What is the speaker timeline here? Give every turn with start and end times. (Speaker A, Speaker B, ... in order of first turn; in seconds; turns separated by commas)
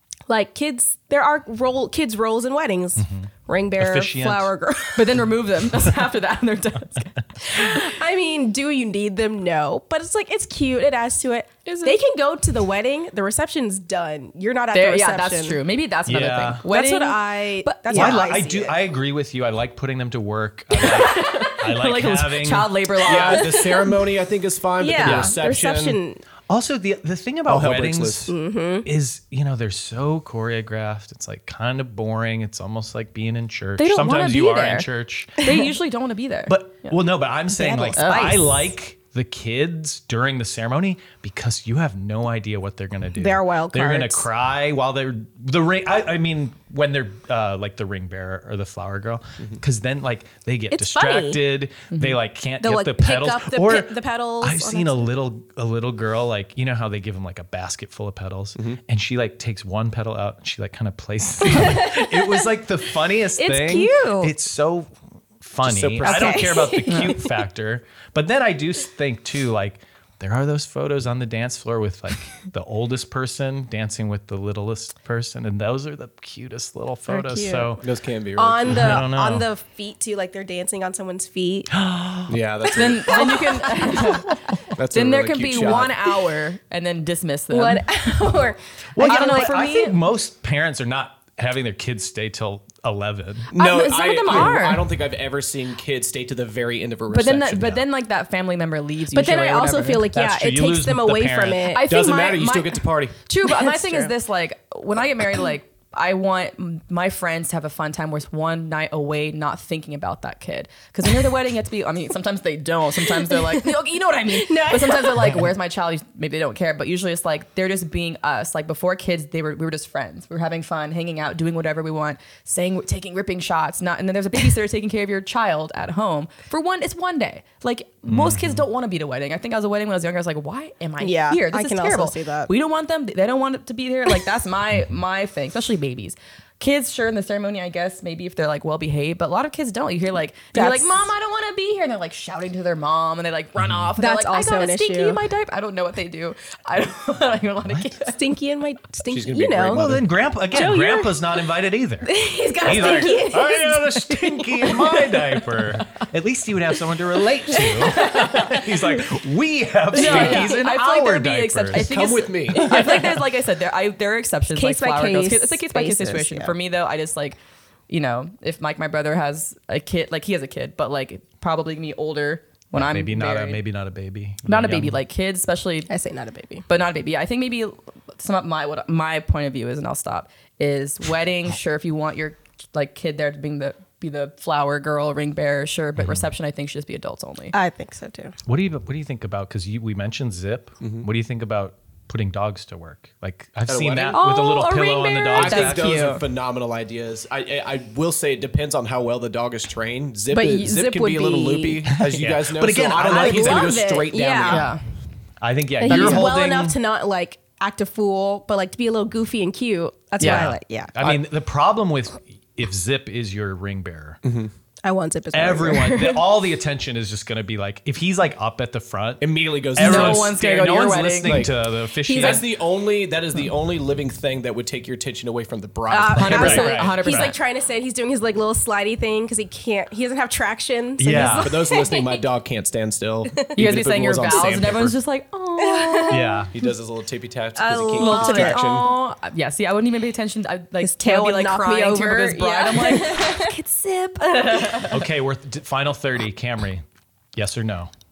Speaker A: 0.3-5.2, Speaker B: 3.0-4.5, Speaker C: 5.0-7.7, Speaker A: 7.5-15.6, Speaker C: 11.7-12.0, Speaker C: 14.7-18.4, Speaker B: 16.1-16.6, Speaker A: 16.6-18.8, Speaker B: 17.9-22.7, Speaker C: 20.7-23.6, Speaker D: 23.0-26.0, Speaker A: 23.1-23.9, Speaker A: 24.8-26.2, Speaker B: 25.0-25.4, Speaker B: 26.5-35.5, Speaker D: 27.5-28.3, Speaker A: 28.3-28.9, Speaker C: 33.8-37.0, Speaker A: 35.4-35.7, Speaker B: 36.5-77.8, Speaker C: 37.6-38.5, Speaker A: 37.6-38.6, Speaker A: 43.2-44.3, Speaker A: 50.7-51.4, Speaker A: 52.6-55.1, Speaker A: 61.5-62.4, Speaker A: 63.4-64.3, Speaker D: 65.6-66.5, Speaker A: 66.0-67.3, Speaker C: 66.9-67.2, Speaker A: 77.1-77.8, Speaker D: 77.8-79.1, Speaker A: 78.4-81.8, Speaker B: 78.7-79.5, Speaker B: 81.8-82.4, Speaker D: 82.3-83.3, Speaker A: 82.7-84.3, Speaker C: 82.7-87.9, Speaker D: 84.7-86.1, Speaker A: 87.5-89.9, Speaker B: 89.0-93.5, Speaker C: 89.0-89.9, Speaker D: 93.5-97.8, Speaker C: 93.5-94.9, Speaker C: 97.1-100.1, Speaker A: 99.1-102.1, Speaker B: 100.1-101.7, Speaker C: 101.7-148.2, Speaker D: 101.8-103.2, Speaker A: 103.5-104.1, Speaker A: 114.3-115.4, Speaker B: 128.1-128.7, Speaker A: 131.0-132.5, Speaker A: 140.5-141.1, Speaker B: 143.6-143.9, Speaker A: 144.0-145.2, Speaker B: 147.7-147.9, Speaker A: 148.1-149.9, Speaker D: 149.1-150.1, Speaker B: 149.7-161.9, Speaker A: 150.5-151.2, Speaker A: 152.1-155.6, Speaker A: 157.6-158.6, Speaker A: 159.9-160.6, Speaker C: 159.9-167.4, Speaker D: 161.7-163.0, Speaker A: 162.5-163.3, Speaker A: 164.6-166.6, Speaker C: 167.9-173.6, Speaker B: 172.7-175.0, Speaker C: 174.5-175.9, Speaker A: 175.9-176.7, Speaker C: 176.7-187.6, Speaker B: 186.0-186.2, Speaker A: 187.5-188.3, Speaker B: 188.5-196.0, Speaker D: 193.7-194.3, Speaker A: 194.1-195.4, Speaker C: 194.2-196.2, Speaker D: 195.3-204.7, Speaker A: 200.3-201.8, Speaker B: 201.9-203.8, Speaker A: 203.0-204.7, Speaker C: 204.5-204.8, Speaker B: 205.4-206.8, Speaker A: 205.8-210.9, Speaker C: 205.8-206.3, Speaker C: 210.2-210.5, Speaker B: 210.2-214.2, Speaker D: 214.2-214.5, Speaker A: 214.8-216.2, Speaker B: 215.3-222.5, Speaker D: 219.2-220.4, Speaker C: 219.8-221.5, Speaker D: 221.2-221.6, Speaker D: 222.1-226.7, Speaker A: 222.1-222.4, Speaker A: 225.9-232.2, Speaker B: 226.1-227.3, Speaker C: 226.2-227.4, Speaker B: 231.0-231.6, Speaker D: 231.1-235.0, Speaker C: 233.6-236.3, Speaker A: 235.6-236.5, Speaker B: 236.1-236.5, Speaker D: 236.5-238.9, Speaker A: 237.6-238.9, Speaker C: 238.0-245.0, Speaker A: 240.8-243.6, Speaker A: 244.4-244.9, Speaker B: 244.9-246.8, Speaker B: 247.3-247.9